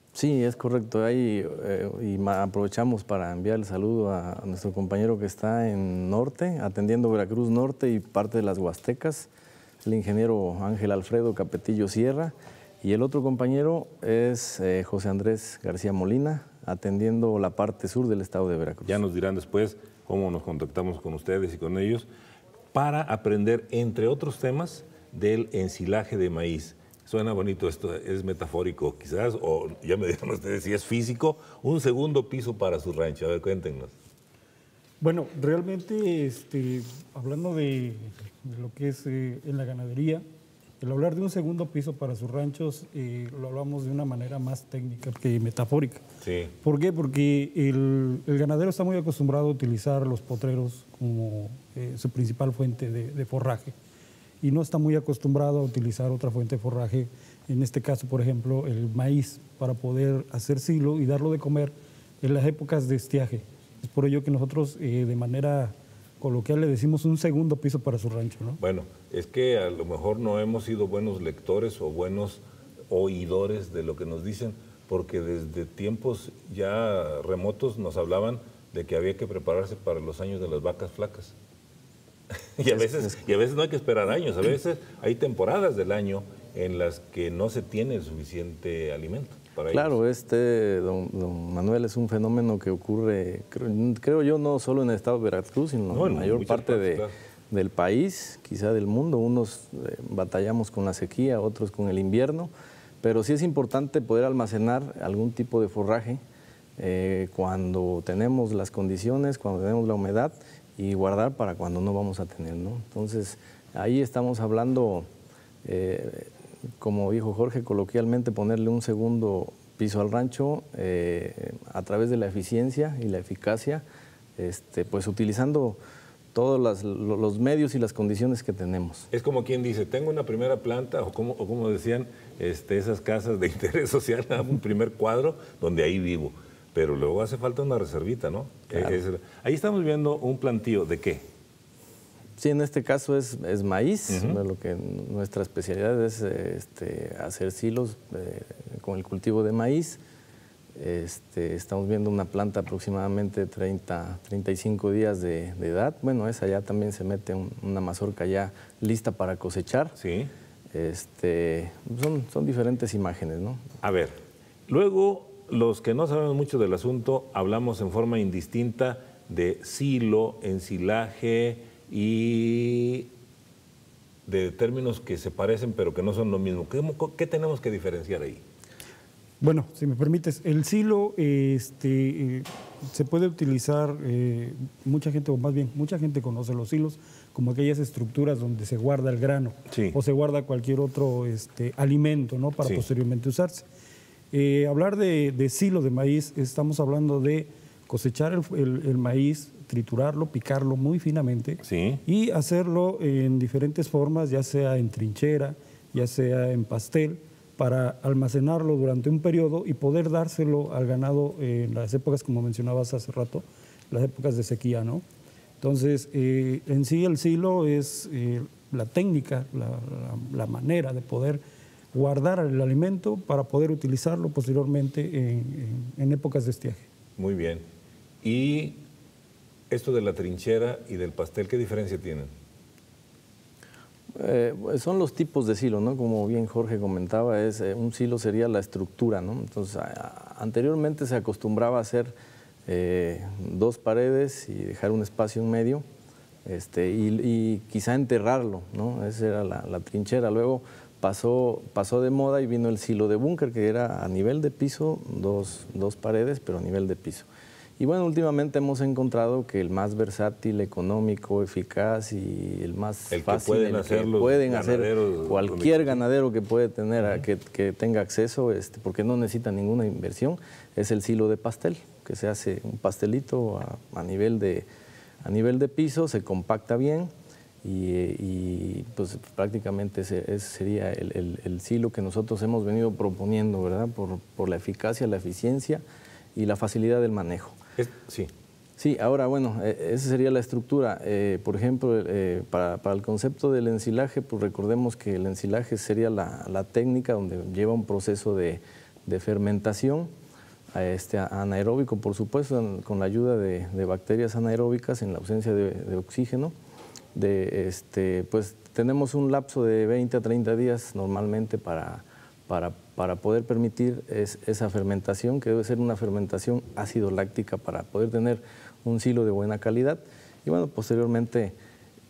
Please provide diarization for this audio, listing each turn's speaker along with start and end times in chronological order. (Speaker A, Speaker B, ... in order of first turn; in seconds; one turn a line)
Speaker A: 0.1-9.3
Speaker A: 9.8-19.0
Speaker B: 18.9-22.1
Speaker B: 22.7-33.9
Speaker C: 35.0-40.2
Speaker C: 40.8-46.0
Speaker B: 46.2-46.5
Speaker C: 46.6-53.8
Speaker C: 54.4-68.6
Speaker B: 68.6-81.3
Speaker B: 82.3-90.0
Speaker A: 82.7-83.2
Speaker A: 89.7-102.5
Speaker B: 95.9-97.1
Speaker A: 103.0-106.2
Speaker A: 106.8-115.1
Speaker A: 115.6-123.8
Speaker A: 124.4-125.8
Speaker A: 126.3-129.1
Speaker B: 129.1-141.2
Speaker A: 138.7-139.0
Speaker A: 142.4-150.0
Speaker B: 144.1-144.4
Speaker A: 150.8-159.9
Speaker B: 160.0-160.3
Speaker A: 160.7-163.7
Speaker B: 163.8-164.2
Speaker B: 164.7-173.1
Speaker B: 174.3-178.4
Speaker C: 179.4-193.7
Speaker B: 189.7-190.0
Speaker B: 192.6-192.9
Speaker C: 194.3-215.0
Speaker B: 201.6-202.0
Speaker C: 215.6-221.4
Speaker C: 221.9-226.8
Speaker B: 227.2-227.7
Speaker B: 228.2-228.8
Speaker B: 229.7-232.3
Speaker A: 234.2-242.1
Speaker A: 242.7-245.8
Speaker A: 246.4-257.3
Speaker A: 257.8-274.7
Speaker B: 263.1-266.0
Speaker A: 275.2-277.1
Speaker A: 277.6-285.8
Speaker A: 286.4-287.6
Speaker B: 287.8-288.3
Speaker A: 288.8-300.1
Speaker A: 300.7-306.5
Speaker A: 307.1-321.6